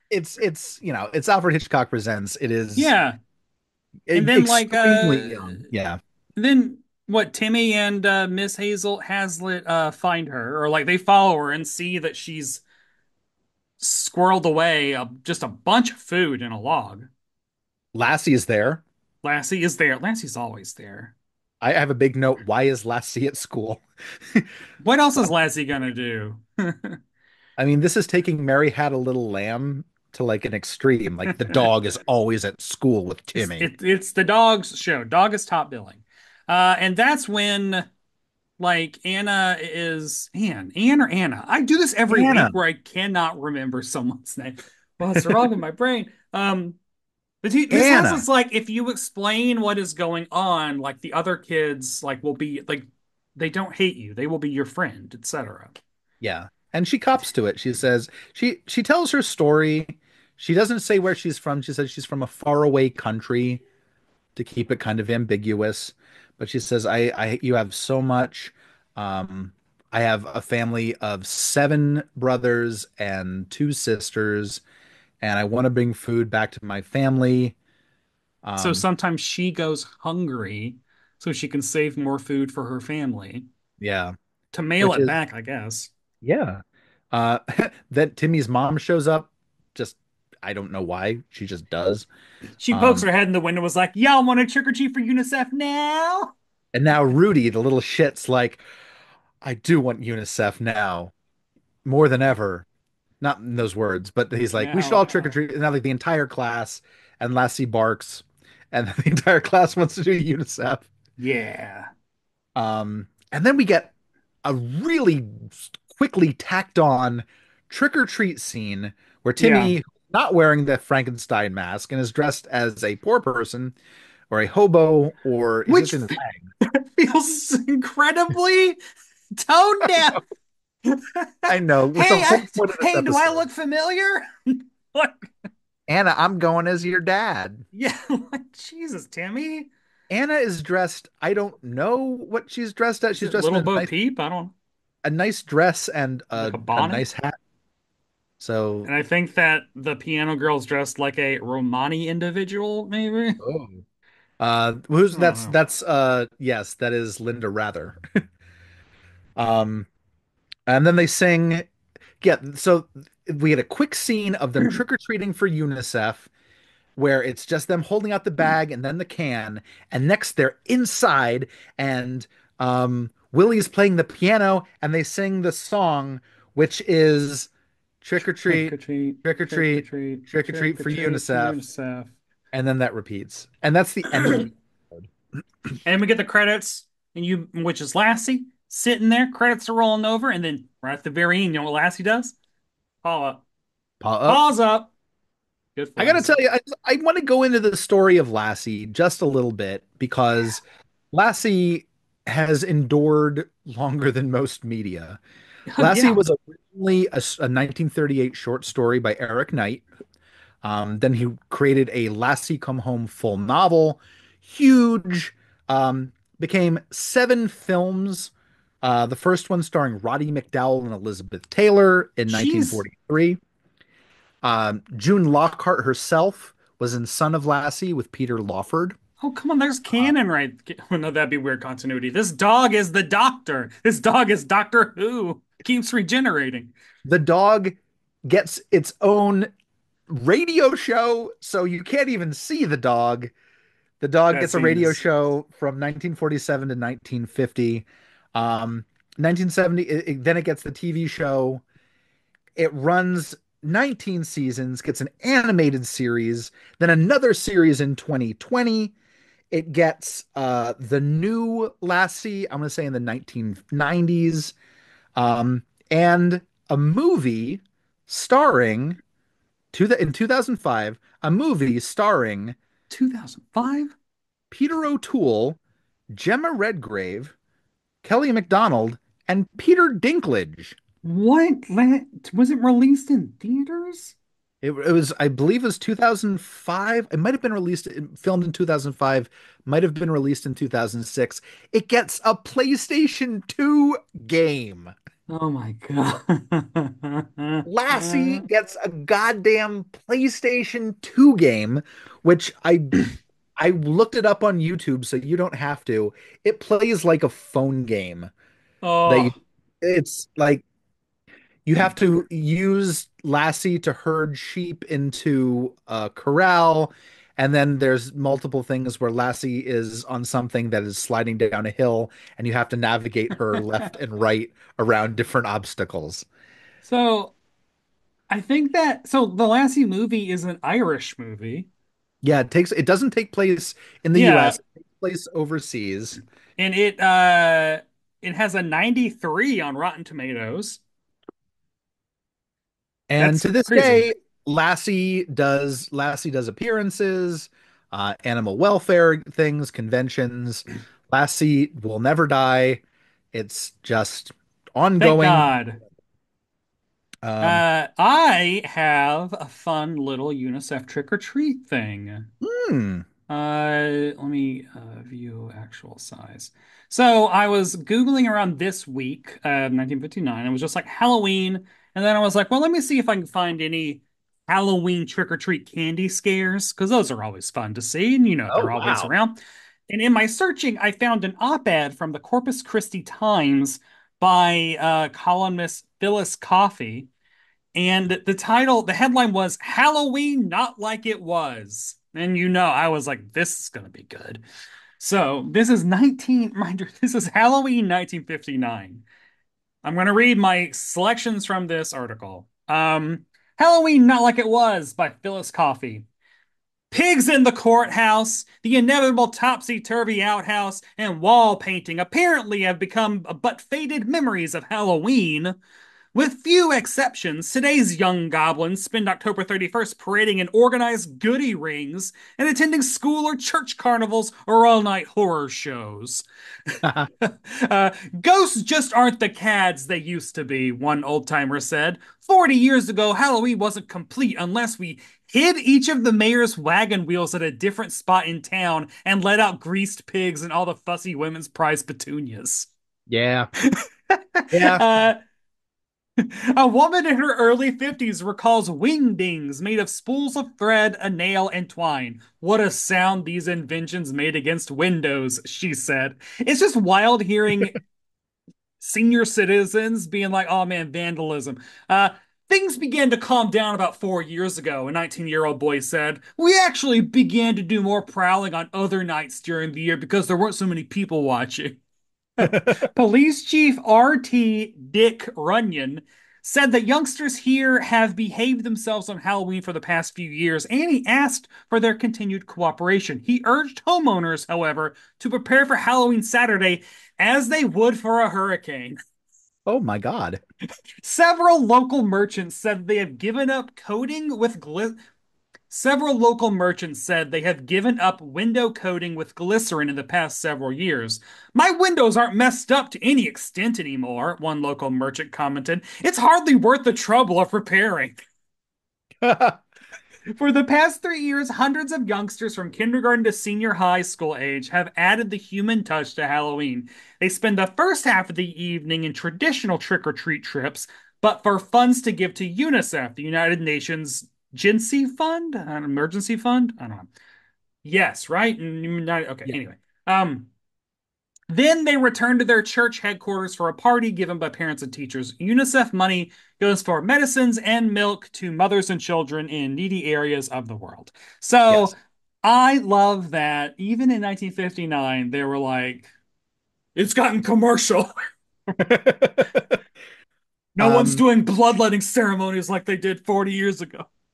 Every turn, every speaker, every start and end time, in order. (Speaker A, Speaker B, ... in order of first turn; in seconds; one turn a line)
Speaker A: 0.1-2.9
Speaker B: 2.8-3.2
Speaker A: 4.1-6.0
Speaker B: 4.1-5.6
Speaker B: 6.4-12.6
Speaker B: 13.8-17.1
Speaker A: 17.9-18.8
Speaker B: 19.2-21.1
Speaker A: 21.6-24.5
Speaker B: 24.8-27.0
Speaker A: 27.6-33.7
Speaker B: 33.4-37.9
Speaker B: 38.6-46.8
Speaker A: 42.1-42.6
Speaker A: 45.1-45.4
Speaker B: 47.4-55.8
Speaker A: 47.7-48.2
Speaker A: 56.2-63.6
Speaker A: 64.4-74.6
Speaker A: 75.2-77.6
Speaker A: 78.4-78.8
Speaker B: 78.6-83.5
Speaker A: 83.8-84.1
Speaker B: 84.5-85.9
Speaker A: 84.8-85.2
Speaker A: 86.2-86.6
Speaker A: 87.1-92.1
Speaker B: 92.6-96.3
Speaker A: 92.7-93.1
Speaker A: 96.7-98.6
Speaker A: 99.4-101.1
Speaker A: 101.8-102.7
Speaker A: 103.2-110.9
Speaker B: 104.5-105.3
Speaker B: 111.2-111.9
Speaker A: 112.5-113.9
Speaker A: 114.5-123.8
Speaker B: 119.4-119.8
Speaker A: 124.3-126.5
Speaker B: 125.7-128.8
Speaker B: 129.4-130.2
Speaker A: 129.9-130.2
Speaker B: 130.8-135.3
Speaker A: 131.5-133.4
Speaker A: 135.9-137.6
Speaker B: 137.7-139.7
Speaker A: 140.1-143.9
Speaker B: 143.2-144.5
Speaker A: 145.0-147.3
Speaker B: 146.4-147.1
Speaker A: 148.4-148.9
Speaker B: 148.8-153.4
Speaker A: 153.4-153.8
Speaker A: 154.4-158.0
Speaker B: 155.1-155.5
Speaker A: 159.4-159.9
Speaker A: 160.7-161.7
Speaker A: 162.2-166.3
Speaker A: 167.0-177.5
Speaker A: 178.0-181.6
Speaker B: 178.5-182.1
Speaker A: 182.5-185.1
Speaker B: 184.1-184.4
Speaker B: 185.8-192.3
Speaker B: 193.0-193.4
Speaker A: 194.0-194.4
Speaker B: 194.3-194.9
Speaker B: 195.8-196.3
Speaker A: 196.0-205.2
Speaker B: 205.7-206.2
Speaker A: 205.8-209.9
Speaker A: 210.6-218.3
Speaker A: 218.8-223.4
Speaker B: 222.3-222.8
Speaker A: 224.4-229.0
Speaker B: 229.2-236.7
Speaker A: 237.1-239.5
Speaker A: 240.1-243.3
Speaker A: 244.0-251.6
Speaker B: 244.3-245.0
Speaker A: 252.6-258.9
Speaker A: 259.5-264.6
Speaker A: 265.2-269.0
Speaker A: 269.7-272.6
Speaker B: 272.9-273.9
Speaker A: 274.5-275.6
Speaker A: 276.1-277.3
Speaker A: 278.0-280.8
Speaker B: 281.0-284.1
Speaker A: 284.6-294.9
Speaker B: 295.3-298.4
Speaker A: 297.6-303.0
Speaker A: 303.6-308.3
Speaker B: 308.8-309.4
Speaker A: 309.1-310.6
Speaker A: 311.6-326.3
Speaker B: 326.8-327.4
Speaker B: 328.3-331.7
Speaker A: 332.2-336.2
Speaker B: 334.1-334.6
Speaker B: 336.6-340.8
Speaker A: 343.1-352.8
Speaker B: 343.2-344.1
Speaker A: 353.3-355.5
Speaker B: 355.0-355.8
Speaker A: 357.2-357.6
Speaker B: 357.4-362.3
Speaker A: 362.4-363.1
Speaker B: 363.3-387.1
Speaker A: 378.5-379.1
Speaker B: 387.8-394.4
Speaker B: 395.0-399.0
Speaker B: 399.8-406.1
Speaker B: 406.9-415.6
Speaker B: 416.1-442.7
Speaker A: 443.1-443.5
Speaker B: 443.6-445.2
Speaker A: 444.5-444.9
Speaker B: 446.2-457.8
Speaker B: 458.8-471.8
Speaker B: 472.4-489.0
Speaker A: 472.4-472.9
Speaker A: 489.7-490.4
Speaker B: 491.0-495.0
Speaker B: 495.7-508.2
Speaker A: 509.2-509.6
Speaker B: 510.3-527.1
Speaker B: 527.8-530.5
Speaker B: 531.5-546.1
Speaker A: 541.7-541.9
Speaker B: 547.0-548.1
Speaker A: 548.8-549.8
Speaker B: 550.8-554.1
Speaker A: 550.8-551.2